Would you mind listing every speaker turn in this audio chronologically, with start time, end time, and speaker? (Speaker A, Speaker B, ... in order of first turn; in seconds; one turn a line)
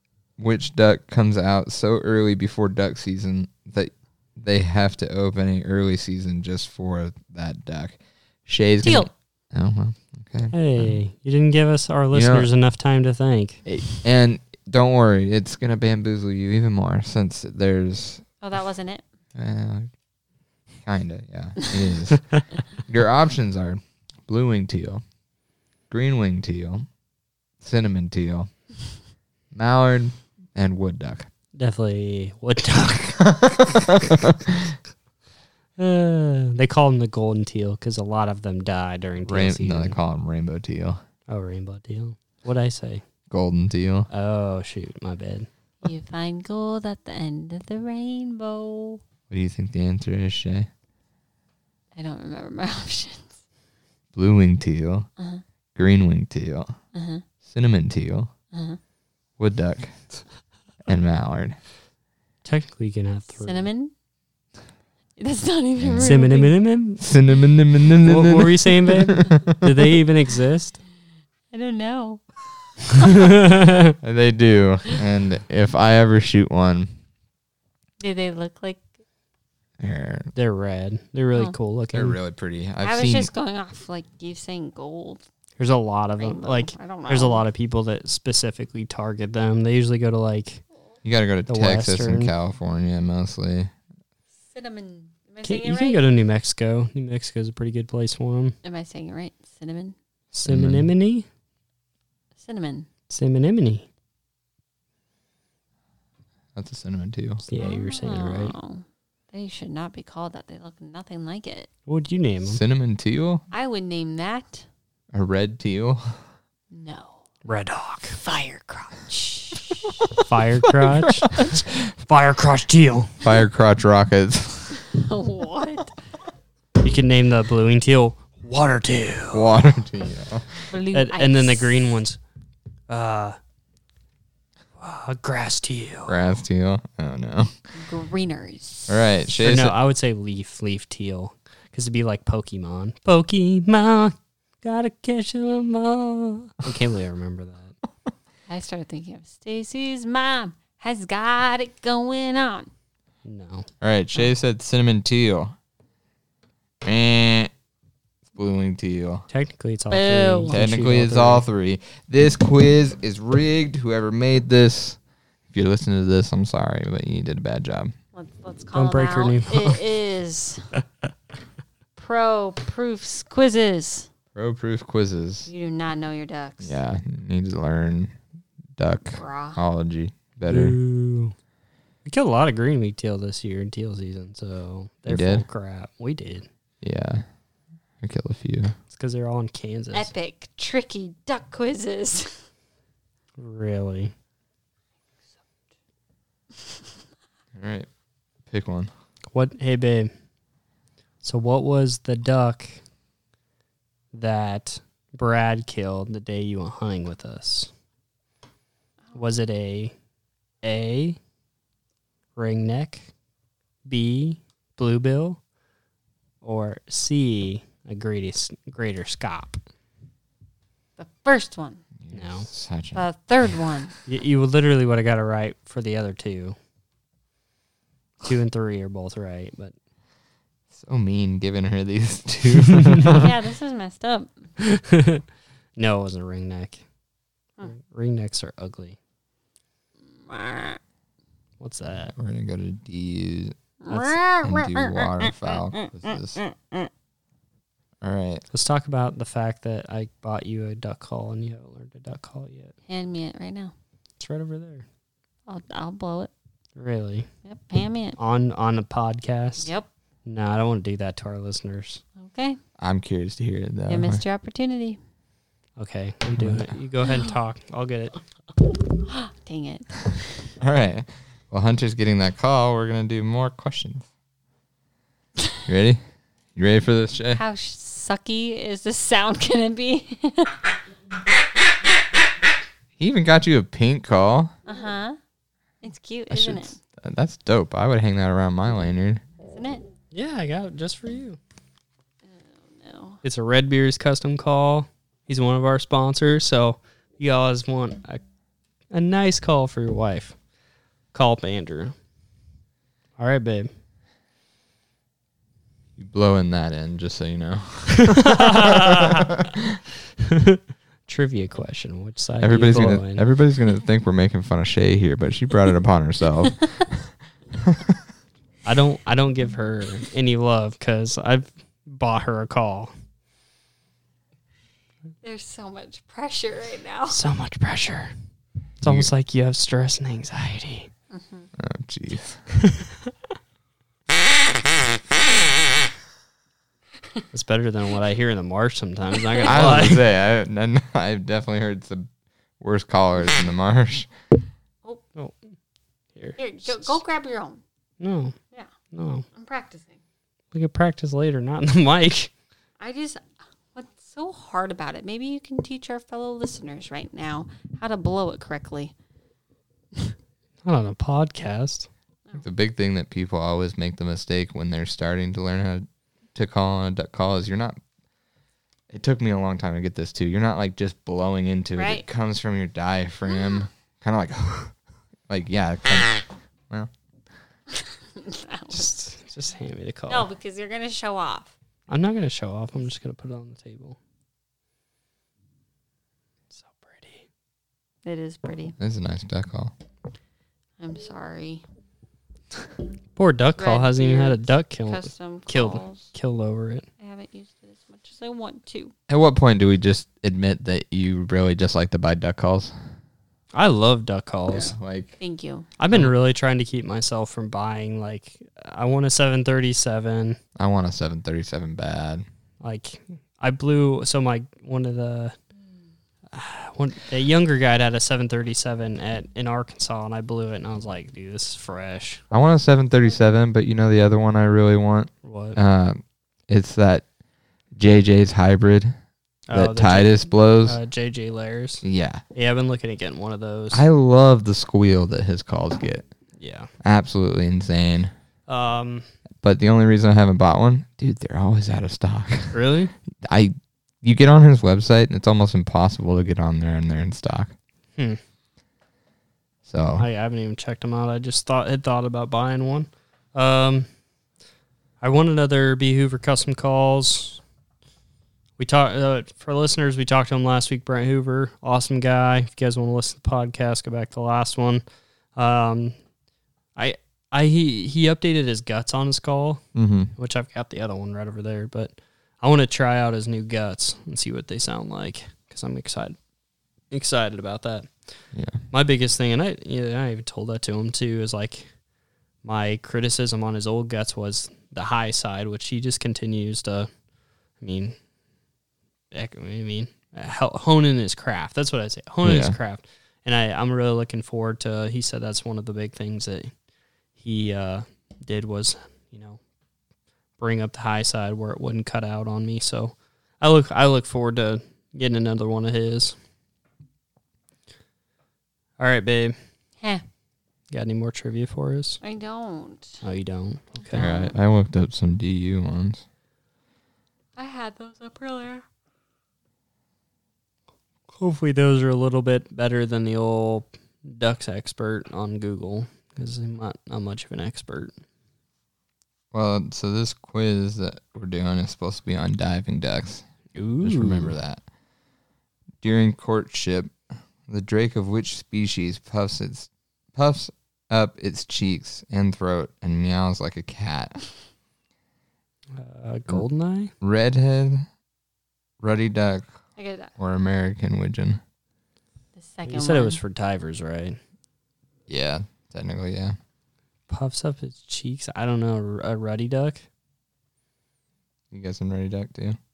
Speaker A: 0.4-10.9
Speaker B: 8.8-9.1
Speaker C: 10.5-13.6
Speaker A: 12.1-12.5
Speaker A: 13.7-18.2
Speaker B: 18.4-19.0
Speaker A: 19.4-19.9
Speaker A: 20.8-25.0
Speaker A: 25.9-26.9
Speaker A: 27.6-28.5
Speaker A: 29.5-31.3
Speaker C: 31.6-33.3
Speaker A: 33.3-34.7
Speaker C: 35.8-40.0
Speaker A: 39.2-41.0
Speaker C: 41.3-43.0
Speaker A: 43.3-44.1
Speaker C: 44.1-45.5
Speaker B: 45.8-49.0
Speaker A: 49.3-50.7
Speaker B: 51.9-53.3
Speaker A: 54.1-55.1
Speaker A: 55.7-56.7
Speaker B: 56.9-57.2
Speaker A: 57.4-58.3
Speaker B: 58.5-58.8
Speaker A: 59.4-60.0
Speaker A: 60.9-61.6
Speaker C: 62.4-63.7
Speaker B: 63.4-63.9
Speaker B: 65.2-66.5
Speaker A: 65.8-66.1
Speaker C: 66.0-67.0
Speaker A: 67.0-69.6
Speaker C: 68.0-70.8
Speaker B: 71.5-72.2
Speaker B: 72.8-73.2
Speaker C: 73.0-73.9
Speaker A: 74.0-76.9
Speaker B: 78.0-78.8
Speaker A: 79.8-80.3
Speaker C: 80.3-82.2
Speaker A: 81.9-83.3
Speaker B: 82.8-85.2
Speaker C: 85.6-90.6
Speaker B: 86.2-87.5
Speaker A: 91.0-93.7
Speaker C: 91.5-92.3
Speaker B: 94.5-96.0
Speaker C: 95.4-98.5
Speaker B: 98.6-100.0
Speaker C: 100.3-101.2
Speaker A: 100.5-100.9
Speaker B: 102.4-102.9
Speaker C: 103.1-103.9
Speaker A: 106.5-107.4
Speaker C: 107.4-108.5
Speaker B: 107.6-111.7
Speaker C: 111.9-112.6
Speaker A: 112.4-113.4
Speaker B: 113.5-114.7
Speaker A: 115.1-116.2
Speaker B: 116.7-117.2
Speaker C: 117.4-118.2
Speaker B: 118.2-119.9
Speaker C: 120.2-123.1
Speaker A: 120.8-121.7
Speaker A: 123.2-124.8
Speaker B: 124.8-125.9
Speaker C: 126.8-129.5
Speaker A: 129.3-130.6
Speaker B: 130.7-131.9
Speaker C: 130.9-132.2
Speaker C: 132.9-133.4
Speaker C: 134.8-136.2
Speaker A: 136.1-137.5
Speaker B: 137.7-139.0
Speaker A: 138.9-139.7
Speaker C: 139.4-147.7
Speaker B: 148.5-152.7
Speaker C: 153.2-153.7
Speaker A: 153.8-155.5
Speaker A: 156.8-157.5
Speaker A: 158.3-159.2
Speaker C: 159.3-161.4
Speaker B: 159.9-160.6
Speaker A: 160.5-165.0
Speaker A: 165.5-167.9
Speaker B: 168.1-170.7
Speaker C: 168.7-169.8
Speaker B: 172.0-174.1
Speaker A: 174.3-175.5
Speaker B: 175.5-176.8
Speaker A: 176.6-178.2
Speaker A: 178.8-180.8
Speaker B: 179.1-179.6
Speaker C: 180.4-181.3
Speaker C: 182.0-186.5
Speaker A: 185.1-185.4
Speaker A: 186.8-187.2
Speaker A: 188.0-188.7
Speaker C: 188.9-190.1
Speaker B: 189.9-192.4
Speaker C: 193.4-194.1
Speaker A: 197.5-197.9
Speaker A: 198.5-198.9
Speaker C: 199.3-200.1
Speaker C: 201.2-202.8
Speaker C: 204.1-207.7
Speaker C: 209.1-209.9
Speaker C: 210.6-211.2
Speaker C: 212.3-213.1
Speaker C: 213.8-215.4
Speaker C: 216.4-219.6
Speaker B: 221.0-221.8
Speaker A: 222.0-223.0
Speaker C: 222.1-222.5
Speaker B: 222.9-223.9
Speaker C: 224.1-226.6
Speaker C: 228.2-229.7
Speaker A: 230.7-233.3
Speaker B: 233.1-234.3
Speaker C: 234.6-235.2
Speaker C: 235.8-236.8
Speaker C: 237.7-239.0
Speaker B: 240.1-240.8
Speaker C: 241.6-242.1
Speaker A: 242.1-243.6
Speaker B: 243.8-246.9
Speaker C: 243.9-244.1
Speaker A: 244.4-246.4
Speaker A: 248.0-248.4
Speaker C: 248.5-252.7
Speaker B: 252.9-253.7
Speaker C: 254.2-254.8
Speaker B: 255.5-256.3
Speaker C: 256.8-257.3
Speaker B: 257.4-258.2
Speaker C: 258.2-259.7
Speaker B: 259.6-259.9
Speaker C: 260.2-262.0
Speaker B: 262.2-262.6
Speaker A: 262.8-264.2
Speaker B: 263.9-265.0
Speaker C: 265.8-268.2
Speaker A: 266.4-266.7
Speaker B: 269.1-270.3
Speaker A: 270.6-274.1
Speaker A: 275.6-276.0
Speaker A: 276.5-277.4
Speaker B: 277.3-280.6
Speaker A: 283.0-284.5
Speaker B: 284.6-285.2
Speaker B: 285.8-286.8
Speaker A: 286.3-289.2
Speaker B: 289.5-289.8
Speaker C: 290.1-291.4
Speaker B: 292.3-293.2
Speaker C: 293.2-298.2
Speaker C: 298.9-300.4
Speaker C: 301.1-301.9
Speaker C: 303.2-303.7
Speaker A: 306.0-309.8
Speaker C: 308.1-309.2
Speaker C: 310.2-313.2
Speaker A: 312.4-318.0
Speaker C: 318.6-322.9
Speaker B: 325.2-327.2
Speaker C: 327.1-328.1
Speaker C: 328.8-330.9
Speaker A: 328.8-329.1
Speaker B: 331.1-331.5
Speaker A: 331.6-332.4
Speaker C: 337.3-340.0
Speaker A: 339.4-342.1
Speaker A: 342.6-344.1
Speaker C: 346.1-346.9
Speaker B: 346.4-347.6
Speaker C: 348.0-348.3
Speaker C: 348.9-349.2
Speaker B: 349.3-350.0
Speaker C: 350.5-352.3
Speaker B: 352.8-358.9
Speaker C: 360.6-361.9
Speaker A: 362.4-367.8
Speaker A: 368.9-374.7
Speaker B: 371.8-372.1
Speaker A: 375.3-376.9
Speaker B: 377.7-378.9
Speaker C: 378.7-380.2
Speaker B: 380.1-381.5
Speaker C: 381.9-384.0
Speaker C: 386.6-387.2
Speaker B: 388.0-388.7
Speaker A: 388.8-389.7
Speaker B: 390.8-391.6
Speaker C: 393.1-396.9
Speaker B: 393.6-396.1
Speaker B: 397.0-398.9
Speaker A: 399.1-402.7
Speaker C: 403.5-404.7
Speaker A: 404.6-405.1
Speaker B: 405.2-405.7
Speaker C: 405.8-410.4
Speaker A: 410.6-412.2
Speaker C: 412.6-415.3
Speaker C: 416.3-422.2
Speaker A: 422.3-427.1
Speaker C: 425.2-425.6
Speaker A: 427.7-428.9
Speaker C: 429.5-433.8
Speaker A: 429.5-430.8
Speaker A: 431.8-432.2
Speaker A: 433.7-436.1
Speaker C: 436.4-436.7
Speaker A: 436.8-438.1
Speaker C: 438.5-439.1
Speaker A: 439.4-442.6
Speaker C: 442.5-442.9
Speaker A: 443.2-447.5
Speaker A: 449.6-450.1
Speaker C: 450.0-453.9
Speaker C: 455.0-457.4
Speaker C: 458.6-464.8
Speaker C: 465.4-465.9
Speaker C: 466.8-469.6
Speaker A: 469.7-470.1
Speaker C: 470.1-476.2
Speaker C: 476.9-478.1
Speaker A: 478.3-478.6
Speaker C: 478.7-481.7
Speaker C: 482.4-486.9
Speaker C: 487.6-488.0
Speaker C: 489.1-496.5
Speaker A: 492.2-492.6
Speaker C: 497.1-499.4
Speaker C: 500.4-506.1
Speaker C: 508.8-509.4
Speaker C: 510.7-512.0
Speaker B: 512.0-513.0
Speaker C: 513.0-514.0
Speaker B: 513.9-514.4
Speaker A: 513.9-516.0
Speaker B: 517.4-518.6
Speaker C: 521.2-527.9
Speaker A: 529.3-533.2
Speaker C: 533.5-534.4
Speaker A: 533.8-534.6
Speaker A: 535.8-536.9
Speaker A: 537.5-544.2
Speaker C: 545.7-546.9
Speaker A: 547.0-547.8
Speaker A: 548.8-549.5
Speaker B: 549.8-550.1
Speaker A: 550.2-551.4
Speaker B: 552.4-553.2
Speaker C: 552.6-554.2
Speaker A: 555.1-556.4
Speaker C: 557.1-559.8
Speaker A: 561.5-562.6